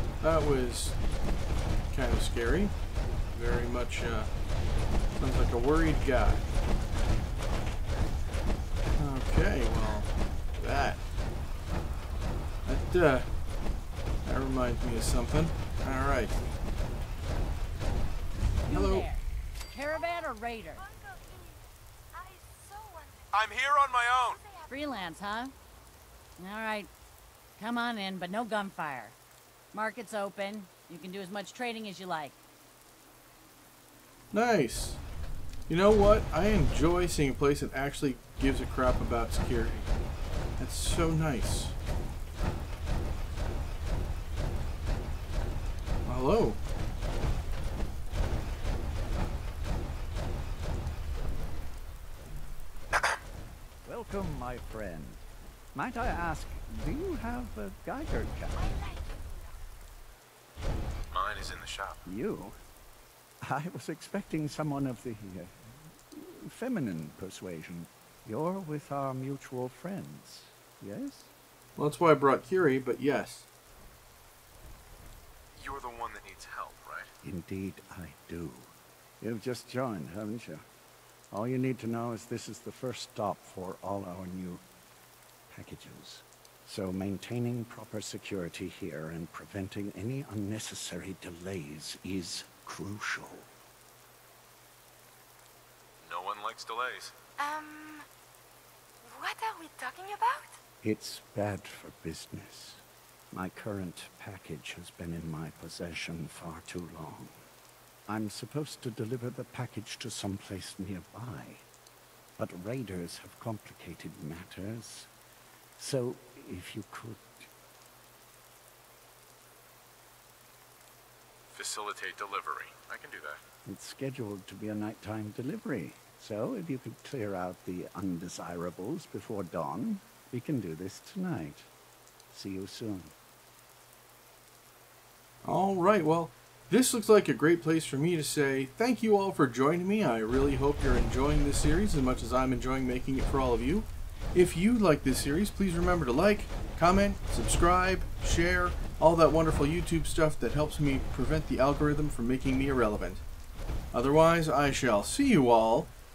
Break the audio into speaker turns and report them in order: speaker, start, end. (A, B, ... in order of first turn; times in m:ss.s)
0:00.2-0:01.0 A
0:01.9-0:02.7 A
0:03.3-0:04.3 A
0:05.2-0:06.4 A
0:09.0-0:11.0 A
0:12.7-0:13.3 A
0:14.2-0:16.4 A
0:18.7-0:20.9 B
0:18.7-0:19.1 A
0:19.9-0:20.2 C
0:20.8-0:21.6 C
0:22.1-0:23.5 C
0:23.3-0:24.4 D
0:24.2-0:24.7 C
0:24.7-0:25.5 B
0:26.4-0:26.9 B
0:27.6-0:29.2 B
0:29.7-0:32.4 B
0:34.3-0:35.0 A
0:35.7-0:39.9 A
0:40.6-0:41.7 A
0:46.0-0:46.6 A
0:53.8-0:58.8 E
0:58.6-0:59.4 C
1:01.1-1:02.0 D
1:02.0-1:02.6 E
1:03.4-1:05.5 E
1:06.1-1:11.3 E
1:11.8-1:13.5 A
1:15.6-1:17.1 D
1:17.2-1:20.6 E
1:21.3-1:24.6 E
1:25.5-1:33.5 E
1:36.0-1:37.1 D
1:37.4-1:38.0 C
1:39.0-1:40.5 C
1:40.8-1:47.3 E
1:48.1-1:51.6 E
1:52.4-1:55.1 E
1:55.8-1:57.5 E
2:01.5-2:03.4 D
2:03.6-2:11.7 E
2:12.3-2:13.1 E
2:15.4-2:33.2 A
2:33.9-2:35.9 A